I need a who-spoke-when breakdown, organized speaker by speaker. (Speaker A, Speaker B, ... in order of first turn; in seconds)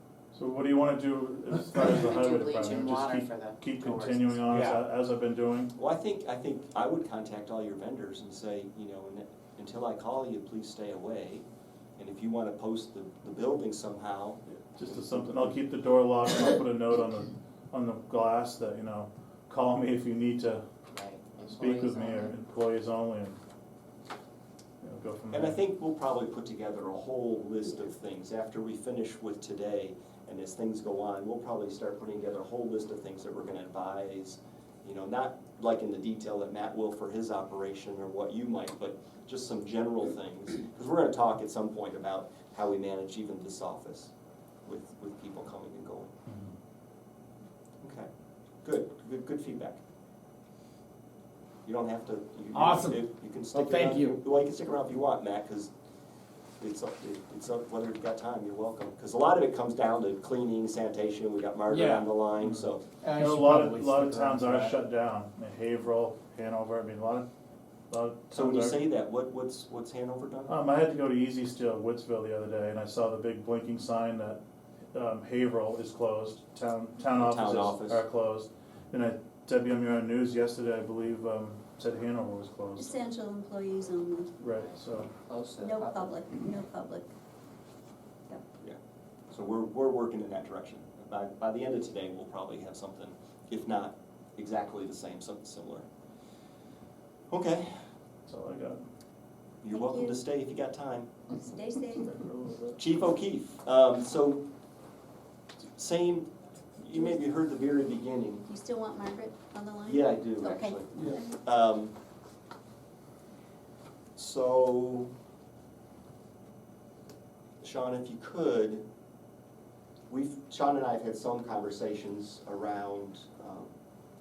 Speaker A: 0.3-5.7, 14.8-20.6, 21.4-23.4, 24.8-25.6, 63.1-67.2, 67.9-68.8, 70.5-74.4, 74.9-83.0, 84.4-85.1, 98.2-98.8, 102.0-102.8
Speaker B: 1.7-4.4, 20.9-22.3, 84.5-86.2
Speaker C: 4.5-4.8, 52.5-54.2, 61.7-62.1, 63.0-64.8
Speaker D: 5.8-11.4, 12.0-15.4, 25.3-44.1, 44.7-46.1, 47.8-48.1, 48.6-49.8, 51.6-55.7, 56.6-62.8, 68.3-70.5, 77.2-78.0, 89.3-95.8, 97.3-97.8, 99.6-101.1, 102.8-104.4, 105.8-108.5, 109.8-111.9, 114.2-115.1, 117.6-118.8, 120.1-123.7
Speaker E: 82.8-84.3, 85.6-87.1, 99.7-100.2, 101.3-102.1, 108.4-111.4